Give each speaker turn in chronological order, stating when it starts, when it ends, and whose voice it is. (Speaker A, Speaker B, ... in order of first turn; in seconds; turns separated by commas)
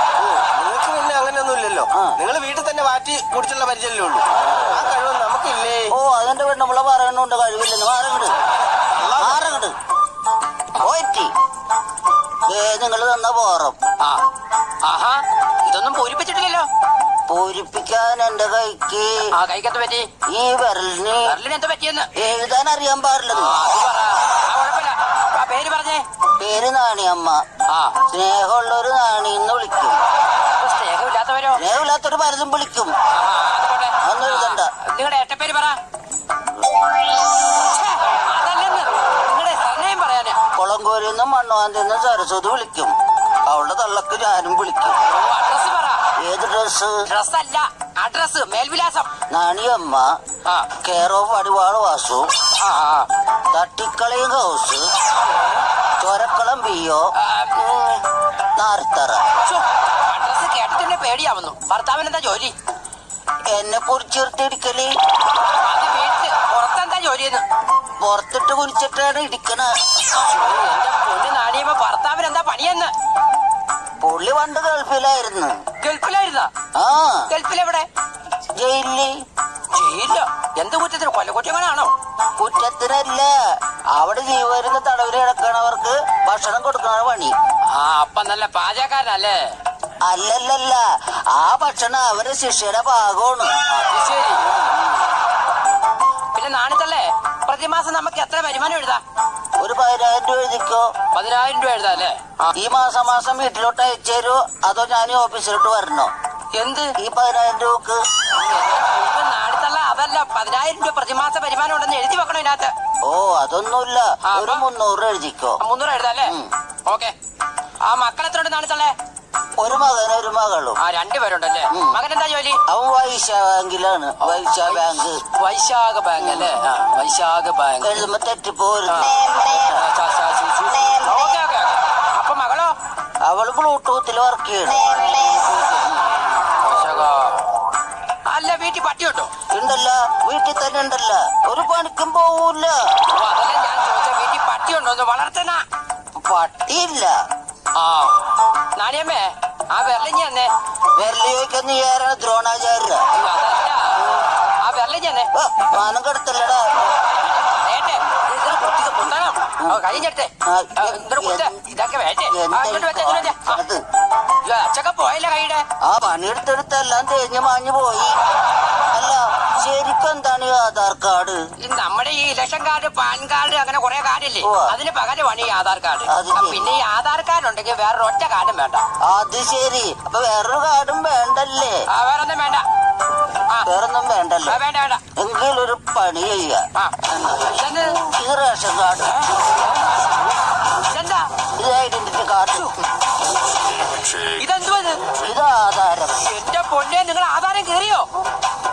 Speaker A: 0.2-5.9, Speaker B: 4.3-4.9, Speaker B: 5.9-8.3, Speaker A: 8.9-9.5, Speaker B: 9.1-9.8, Speaker B: 10.7-11.3, Speaker B: 12.4-13.8, Speaker C: 14.0-14.2, Speaker C: 14.8-16.7, Speaker B: 17.3-19.3, Speaker C: 19.3-20.1, Speaker B: 20.3-21.3, Speaker C: 21.2-22.1, Speaker B: 22.1-23.6, Speaker C: 23.3-26.0, Speaker B: 26.4-27.4, Speaker C: 27.7-28.0, Speaker B: 28.1-30.0, Speaker C: 30.5-31.6, Speaker B: 31.5-32.9, Speaker C: 33.1-35.8, Speaker B: 34.0-34.7, Speaker C: 37.4-40.4, Speaker B: 40.5-45.0, Speaker C: 45.0-46.0, Speaker B: 46.2-47.0, Speaker C: 47.0-49.1, Speaker B: 49.3-50.1, Speaker C: 50.4-50.7, Speaker B: 50.8-52.3, Speaker C: 52.5-53.1, Speaker B: 53.5-54.9, Speaker B: 56.0-57.1, Speaker C: 57.1-58.0, Speaker B: 58.5-59.2, Speaker C: 59.4-62.5, Speaker B: 63.5-64.9, Speaker C: 65.6-67.4, Speaker B: 68.0-69.7, Speaker C: 70.1-72.9, Speaker B: 74.0-75.6, Speaker C: 75.8-76.5, Speaker B: 76.8-77.3, Speaker C: 77.3-77.9, Speaker B: 78.5-79.1, Speaker C: 79.7-81.9, Speaker B: 82.4-87.3, Speaker C: 87.7-89.6, Speaker B: 90.0-93.5, Speaker C: 93.7-94.5, Speaker C: 96.3-99.0, Speaker B: 99.6-100.9, Speaker C: 101.1-102.5, Speaker B: 102.5-106.1, Speaker C: 106.5-106.9, Speaker B: 107.0-108.0, Speaker C: 108.3-112.7, Speaker B: 113.0-115.6, Speaker C: 114.2-114.6, Speaker C: 115.6-117.1, Speaker B: 116.2-116.5, Speaker C: 117.8-118.9, Speaker B: 119.6-120.8, Speaker C: 120.8-122.6, Speaker B: 121.7-122.0, Speaker B: 122.7-125.2, Speaker C: 124.2-128.0, Speaker B: 126.2-126.6, Speaker B: 127.8-129.8, Speaker C: 128.9-132.7, Speaker B: 133.2-135.4, Speaker C: 135.2-137.4, Speaker C: 138.2-139.3, Speaker B: 139.5-143.0, Speaker C: 143.0-145.6, Speaker B: 146.2-147.2, Speaker C: 147.7-150.5, Speaker B: 150.9-153.1, Speaker C: 153.1-155.3, Speaker B: 155.3-157.0, Speaker C: 157.3-163.6, Speaker B: 159.6-161.6, Speaker B: 162.3-163.8, Speaker C: 164.4-165.6, Speaker B: 165.8-168.2, Speaker B: 168.9-171.4, Speaker C: 171.6-178.8, Speaker B: 174.4-174.7, Speaker B: 176.1-176.7, Speaker B: 179.0-181.8, Speaker C: 181.9-182.7, Speaker B: 183.6-184.6, Speaker C: 184.4-185.0, Speaker B: 185.2-189.2, Speaker C: 186.8-188.0, Speaker C: 189.0-191.3, Speaker B: 191.5-192.8, Speaker C: 194.0-195.1, Speaker B: 195.1-196.3, Speaker C: 196.2-198.1